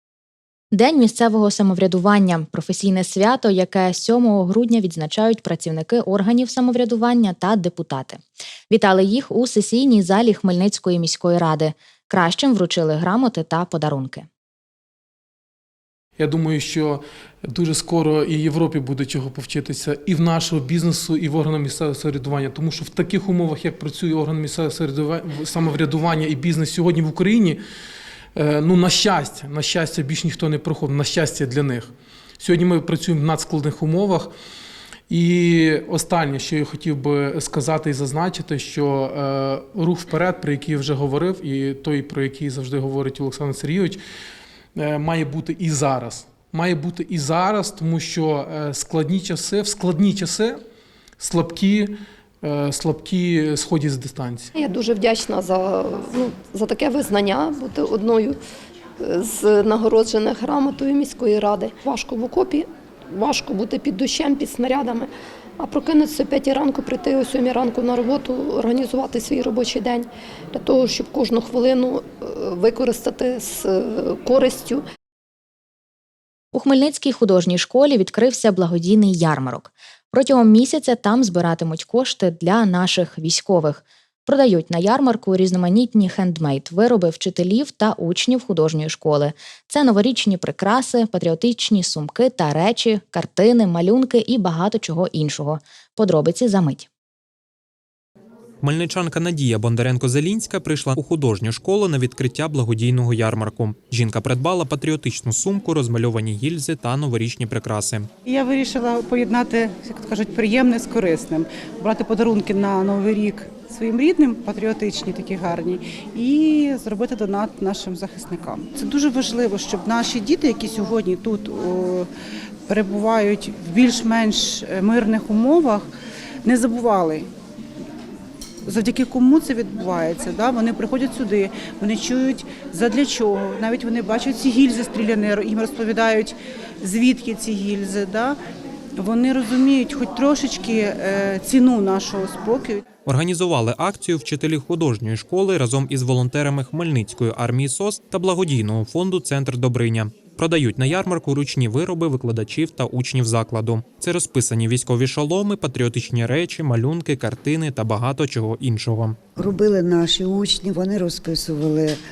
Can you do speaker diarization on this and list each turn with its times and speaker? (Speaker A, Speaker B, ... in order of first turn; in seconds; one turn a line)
Speaker A: 0.7-14.3
Speaker B: 16.2-27.6
Speaker B: 28.4-34.3
Speaker B: 35.1-44.0
Speaker B: 44.8-50.6
Speaker B: 51.2-54.4
Speaker C: 54.6-58.4
Speaker C: 59.1-62.6
Speaker C: 63.1-65.1
Speaker C: 65.6-74.8
Speaker A: 76.5-96.9
Speaker D: 98.6-108.1
Speaker E: 108.2-122.1
Speaker E: 122.7-125.9
Speaker E: 126.4-127.3
Speaker E: 128.7-138.3
Speaker E: 139.0-142.8
Speaker D: 143.1-159.2
Speaker F: 159.4-162.0